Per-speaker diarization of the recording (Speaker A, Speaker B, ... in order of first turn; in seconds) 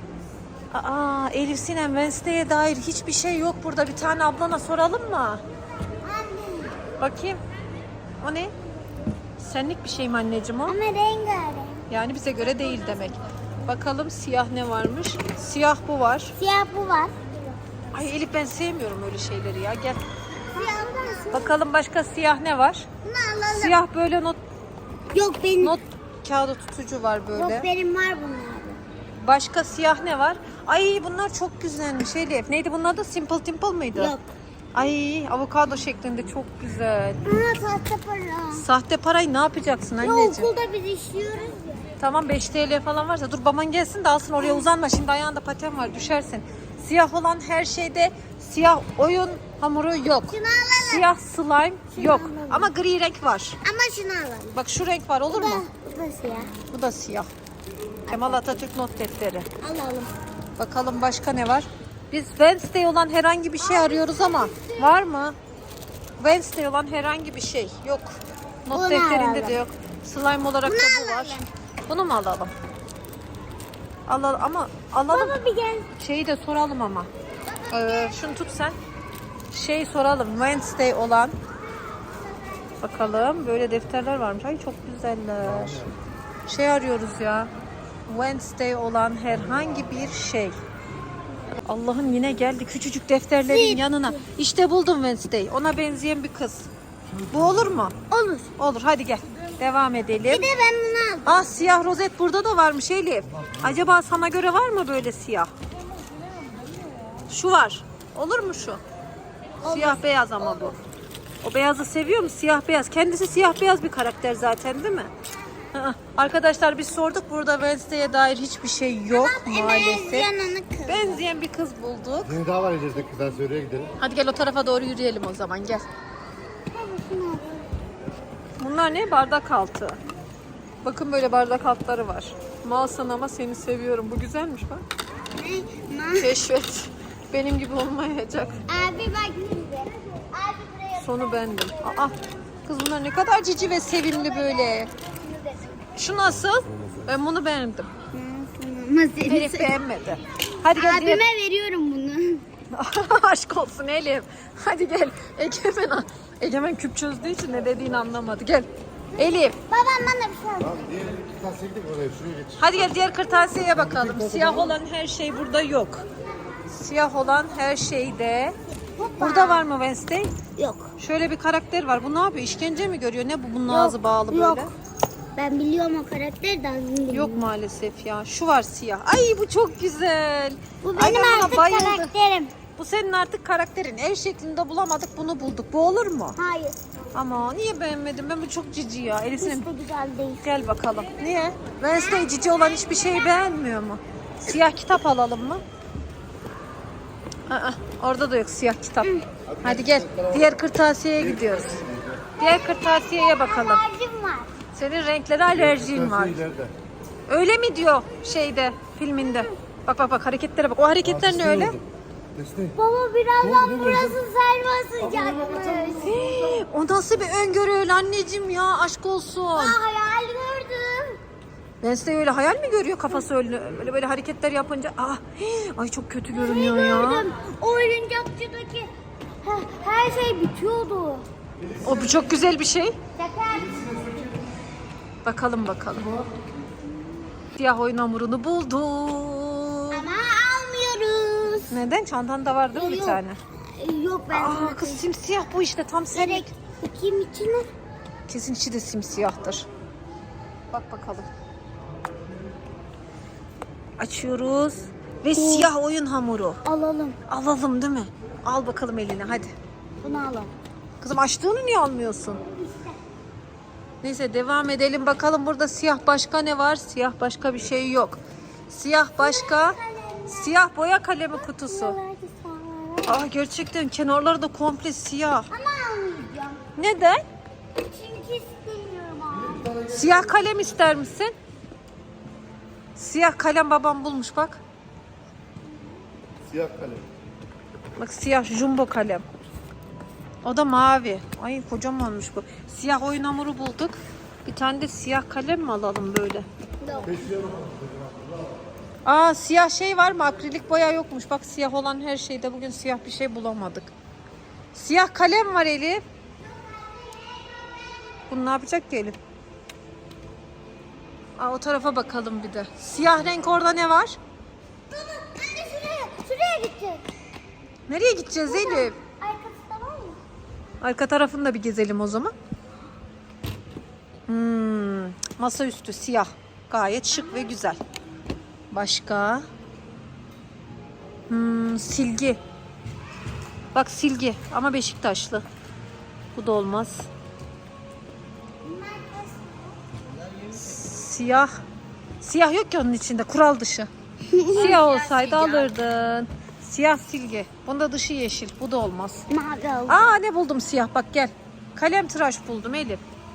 Speaker A: 0.7-5.4, 7.0-7.4, 8.2-8.5, 9.4-10.8, 11.9-16.3, 17.9-20.0, 21.3-22.9, 23.5-24.4, 25.6-27.6, 29.2-34.1, 34.7-37.2, 38.5-40.5, 42.0-53.6, 54.5-55.6, 56.7-57.3, 58.1-59.5, 60.6-65.3, 66.2-68.2, 68.7-72.5, 74.1-75.3, 76.0-77.1, 77.7-78.8, 79.5-81.3, 82.8-85.8, 86.5-87.5, 88.1-90.5, 91.7-96.7, 97.3-97.9, 98.6-100.5, 101.2-105.5, 107.3-108.8, 109.6-110.8, 111.4-115.1, 115.7-120.3, 120.9-122.4, 124.0-125.8, 128.6-130.0, 130.8-134.8, 136.2-138.6, 141.0-142.1, 142.7-144.9, 145.9-147.9, 149.3-151.2, 152.7-159.5, 162.6-166.0, 166.7-168.5, 169.2-170.3, 171.0-174.7, 177.1-182.1, 182.7-186.3, 187.1-189.7, 190.4-195.6, 197.5-201.8, 202.4-203.8, 204.7-206.4, 207.3-211.8, 215.9-219.8, 221.8-227.3, 231.8-233.0, 235.2-236.2, 237.6-240.1, 241.7-243.4, 244.3-246.5, 248.3-249.7, 250.7-251.3, 254.0-256.6, 257.3-259.5, 261.0-262.4, 264.0-272.0, 273.1-275.5, 276.8-277.2, 279.9-281.3, 282.9-284.6, 288.0-289.2, 290.4-296.5, 299.0-303.9, 304.7-306.0, 308.3-309.1, 311.4-314.2, 317.9-318.9, 320.8-322.3, 324.3-327.8, 328.7-329.4, 331.3-332.4, 333.7-335.4, 336.3-337.1, 340.5-341.5, 342.2-343.9, 344.5-349.2, 349.9-353.0
Speaker B: 6.0-6.8, 10.7-11.8, 16.4-17.1, 20.5-21.6, 23.0-23.8, 25.1-25.8, 27.3-28.8, 34.0-34.2, 37.2-38.7, 40.0-41.9, 44.4-44.7, 50.3-51.1, 51.9-52.7, 53.6-54.6, 55.3-56.5, 58.1-58.6, 59.6-60.1, 63.6-65.0, 68.7-69.6, 70.6-71.5, 75.1-75.9, 77.5-78.2, 93.5-94.2, 98.1-98.5, 100.3-101.5, 109.6-110.7, 119.1-121.2, 126.7-127.5, 135.4-136.3, 138.7-142.1, 143.8-145.6, 148.1-149.8, 150.7-152.4, 159.2-160.9, 169.0-169.7, 170.6-170.9, 173.7-174.7, 175.3-177.5, 180.8-182.5, 186.4-186.8, 189.4-190.7, 191.9-193.5, 202.4-204.5, 209.2-209.5, 212.8-216.2, 219.5-221.2, 226.3-228.9, 229.4-231.2, 233.2-234.3, 239.9-241.8, 242.7-245.1, 246.1-247.7, 255.3-255.7, 256.6-257.2, 260.0-260.5, 262.3-263.0, 269.2-270.6, 271.3-273.2, 275.5-276.6, 277.8-279.7, 296.8-297.3, 306.5-308.0, 314.9-317.1, 318.4-320.2, 327.2-327.5, 338.6-339.6, 344.3-345.7, 349.3-350.1
Speaker C: 85.5-85.9, 97.1-97.4, 122.2-123.9, 160.7-162.7, 163.8-164.8, 199.5-200.5, 201.2-202.2, 205.5-206.7, 211.0-212.8, 213.4-214.2, 215.0-215.9, 279.4-280.3, 286.5-287.0, 297.1-298.5